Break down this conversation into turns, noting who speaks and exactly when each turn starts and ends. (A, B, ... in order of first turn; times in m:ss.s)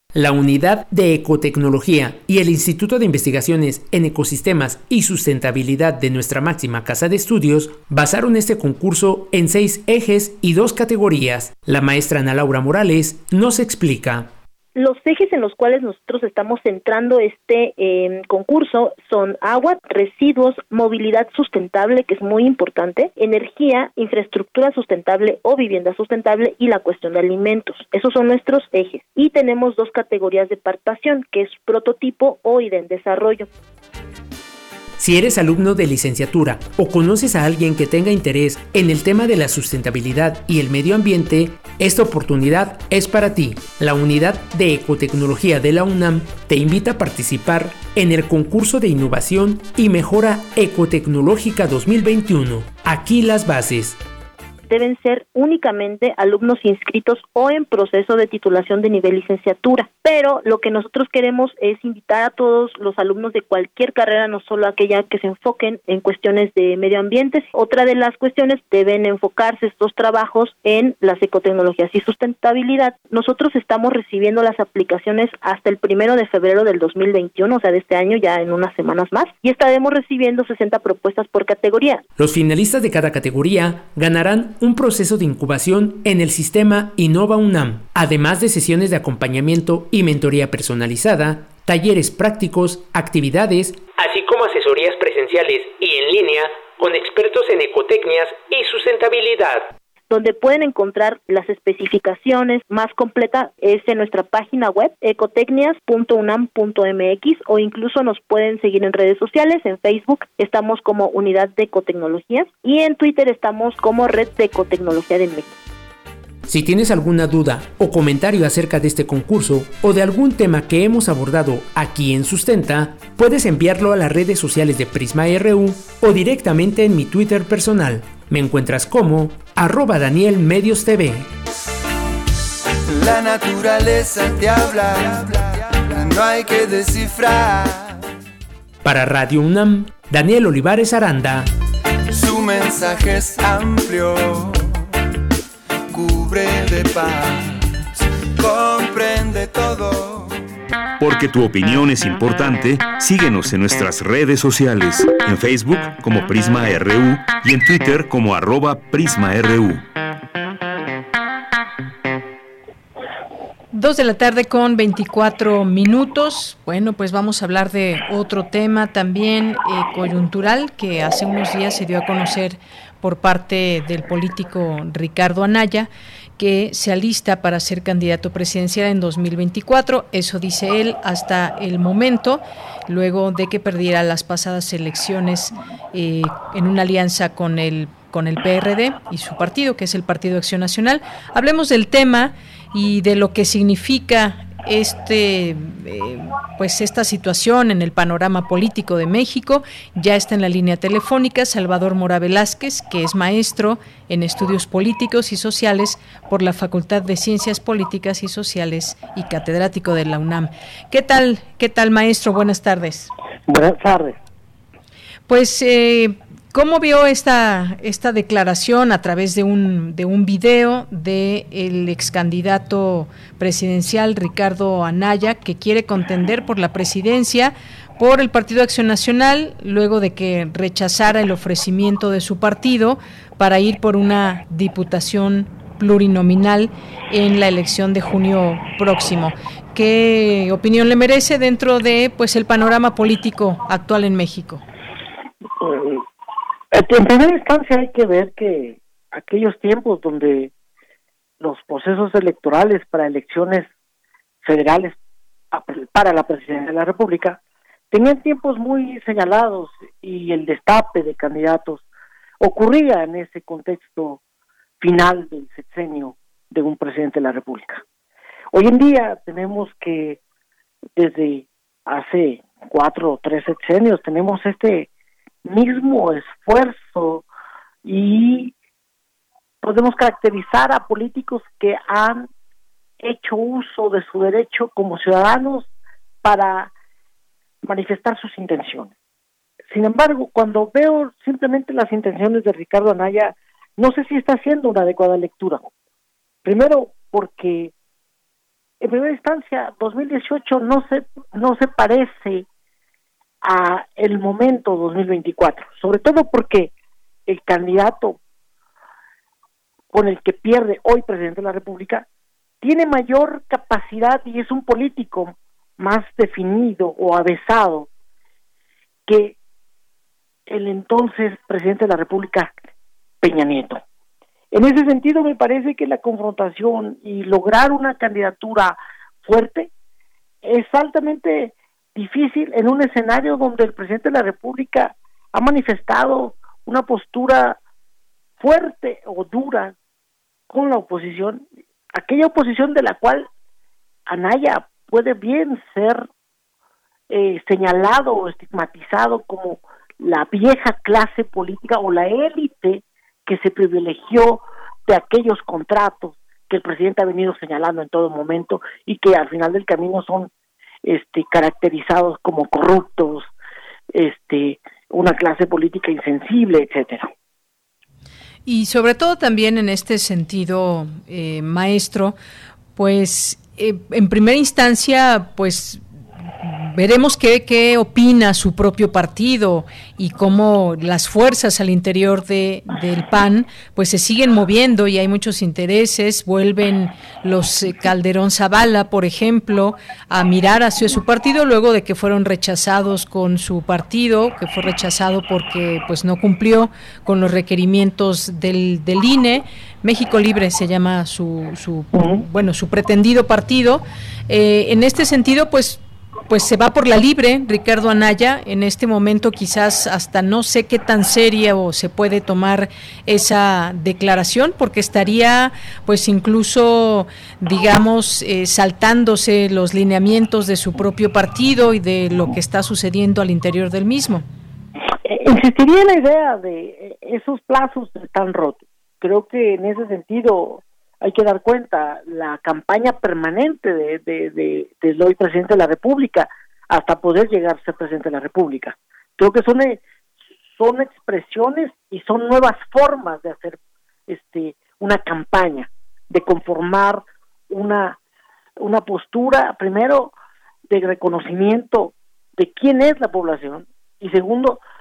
0:00.2-0:14.3 A
0:14.8-0:33.5 B
0:35.0-0:54.0 A
0:54.7-1:22.0 B
1:22.2-1:39.6 A
1:40.1-1:55.6 B
1:56.5-2:11.3 A
2:13.2-2:15.2 C
2:16.0-2:17.3 C
2:18.8-2:21.5 A
2:22.4-2:24.0 C
2:26.0-2:27.0 C
2:28.4-2:29.5 C
2:31.0-2:39.8 D
2:43.7-3:33.1 E
3:33.5-3:34.2 F
3:35.3-4:04.6 E
4:05.6-4:06.0 F
4:06.7-4:10.5 F
4:11.4-4:13.7 F
4:14.4-4:15.0 F
4:15.5-4:17.4 F
4:17.9-4:21.8 F
4:22.4-4:24.2 F
4:24.8-4:27.8 F
4:28.5-4:30.2 F
4:31.0-4:34.9 F
4:35.4-4:37.2 F
4:37.8-4:38.5 F
4:39.6-4:42.3 F
4:43.0-4:45.7 F
4:46.2-4:46.7 F
4:47.6-4:48.9 F
4:49.7-4:55.7 F
4:56.4-4:57.7 F
4:58.8-5:02.4 F
5:03.4-5:06.7 F
5:07.3-5:08.2 F
5:09.9-5:12.0 F
5:12.6-5:17.9 F
5:19.1-5:19.4 F
5:20.5-5:22.5 F
5:23.2-5:23.8 F
5:24.5-5:29.7 F
5:30.4-5:37.6 F
5:38.4-5:39.7 F
5:40.5-5:43.3 F
5:44.1-5:46.1 F
5:47.1-6:00.3 F
6:00.8-6:03.3 F
6:03.9-6:07.1 F
6:08.5-6:12.2 E
6:12.8-6:15.8 E
6:16.4-7:04.2 E
6:41.9-6:42.2 F
7:05.1-7:19.8 F
7:20.5-7:28.0 F
7:28.6-7:30.1 F
7:30.7-7:34.6 F